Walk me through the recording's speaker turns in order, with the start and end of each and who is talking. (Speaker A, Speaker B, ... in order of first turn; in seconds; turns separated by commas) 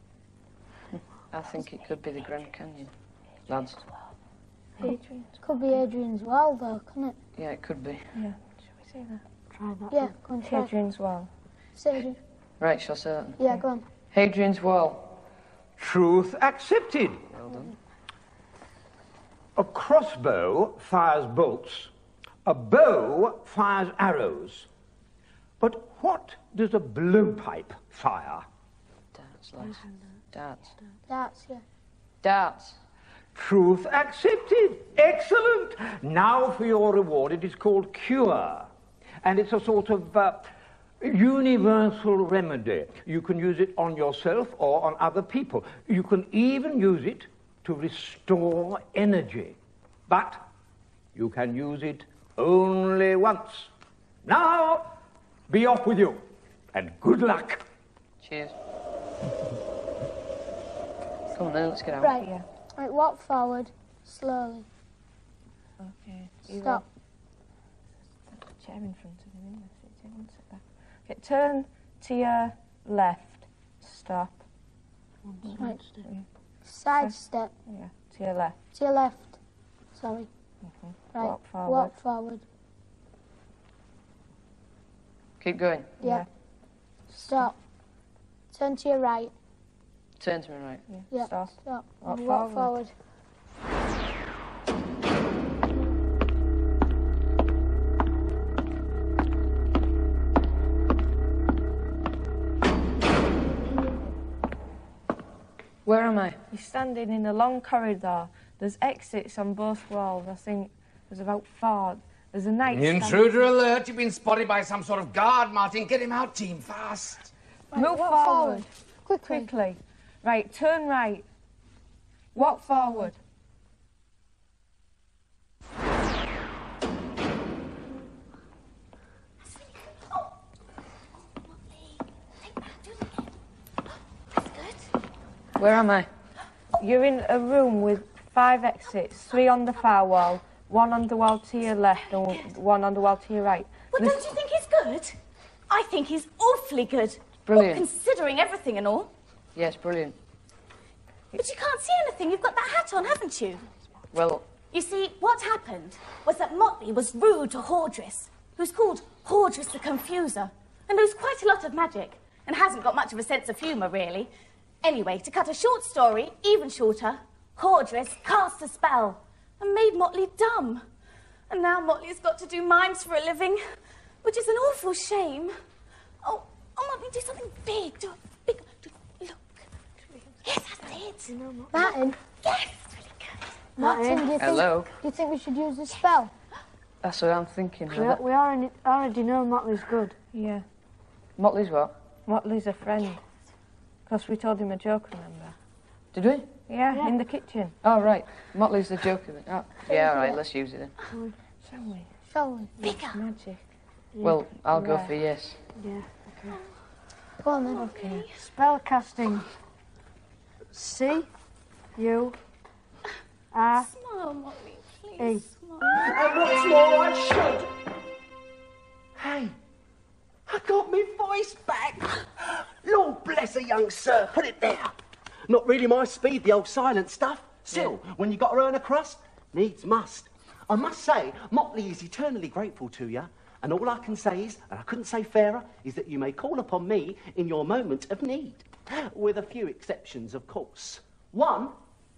Speaker A: 1.3-2.9, Speaker A: 3.5-3.8, Speaker B: 4.8-5.3, Speaker C: 5.4-7.2, Speaker A: 7.4-8.1, Speaker B: 8.1-9.2, Speaker D: 9.5-10.1, Speaker C: 9.9-10.7, Speaker B: 10.4-11.3, Speaker C: 11.8-12.2, Speaker A: 12.6-13.4, Speaker C: 13.4-13.8, Speaker A: 14.1-15.0, Speaker E: 15.8-17.3, Speaker A: 17.4-17.7, Speaker E: 19.6-21.9, Speaker E: 22.4-24.7, Speaker E: 25.6-28.4, Speaker A: 29.1-30.7, Speaker D: 29.6-30.0, Speaker C: 31.1-31.6, Speaker A: 32.2-32.8, Speaker E: 33.3-38.7, Speaker E: 39.2-40.5, Speaker E: 41.0-49.5, Speaker E: 50.1-50.5, Speaker E: 51.1-53.7, Speaker E: 54.2-54.9, Speaker E: 55.5-57.6, Speaker A: 58.2-58.5, Speaker A: 61.3-62.2, Speaker C: 62.0-64.7, Speaker B: 65.8-66.8, Speaker C: 66.5-66.8, Speaker B: 68.3-74.4, Speaker D: 75.3-76.0, Speaker B: 75.4-76.2, Speaker C: 76.6-77.5, Speaker B: 77.7-78.5, Speaker C: 78.7-79.4, Speaker C: 79.9-80.3, Speaker B: 80.8-81.9, Speaker C: 81.1-82.4, Speaker A: 85.4-85.9, Speaker C: 86.0-86.2, Speaker B: 86.0-86.3, Speaker B: 87.1-87.5, Speaker C: 87.2-87.5, Speaker C: 88.5-89.3, Speaker A: 90.2-90.8, Speaker B: 90.9-92.7, Speaker C: 91.1-92.9, Speaker A: 105.8-106.4, Speaker B: 106.5-113.4, Speaker F: 112.7-117.3, Speaker C: 117.7-119.5, Speaker B: 117.7-118.7, Speaker B: 119.2-121.2, Speaker B: 122.3-123.2, Speaker C: 122.3-123.1, Speaker G: 129.4-130.3, Speaker G: 131.5-133.2, Speaker G: 134.3-134.9, Speaker A: 135.6-136.1, Speaker B: 136.8-144.4, Speaker G: 143.9-145.2, Speaker G: 145.7-149.1, Speaker A: 147.4-147.8, Speaker A: 149.5-150.1, Speaker G: 151.3-153.7, Speaker A: 154.1-154.4, Speaker G: 154.7-164.3, Speaker G: 164.8-170.8, Speaker G: 171.5-173.6, Speaker G: 174.2-175.6, Speaker G: 176.2-179.7, Speaker G: 180.4-183.4, Speaker D: 181.3-181.9, Speaker C: 181.7-182.2, Speaker C: 183.8-186.3, Speaker D: 183.8-184.3, Speaker A: 184.4-184.9, Speaker A: 187.0-188.2, Speaker D: 187.9-190.2, Speaker B: 190.3-190.6, Speaker A: 191.4-191.9, Speaker B: 192.2-193.2, Speaker B: 194.1-195.5, Speaker A: 196.1-196.5, Speaker B: 196.7-197.7, Speaker A: 197.8-200.9, Speaker D: 200.0-200.3, Speaker D: 201.1-201.3, Speaker B: 201.7-202.1, Speaker C: 202.3-202.8, Speaker G: 202.8-203.2, Speaker B: 203.1-203.6, Speaker D: 204.1-204.4, Speaker A: 204.2-205.6, Speaker B: 204.7-205.1, Speaker D: 205.7-206.6, Speaker C: 207.4-207.8, Speaker B: 207.8-208.2, Speaker G: 207.8-208.4, Speaker D: 208.4-209.5, Speaker D: 210.7-211.3, Speaker D: 211.9-212.4, Speaker D: 213.5-213.9, Speaker G: 213.7-216.1, Speaker D: 215.2-216.0, Speaker H: 216.0-217.7, Speaker H: 219.2-219.5, Speaker H: 220.4-224.9, Speaker H: 225.5-241.7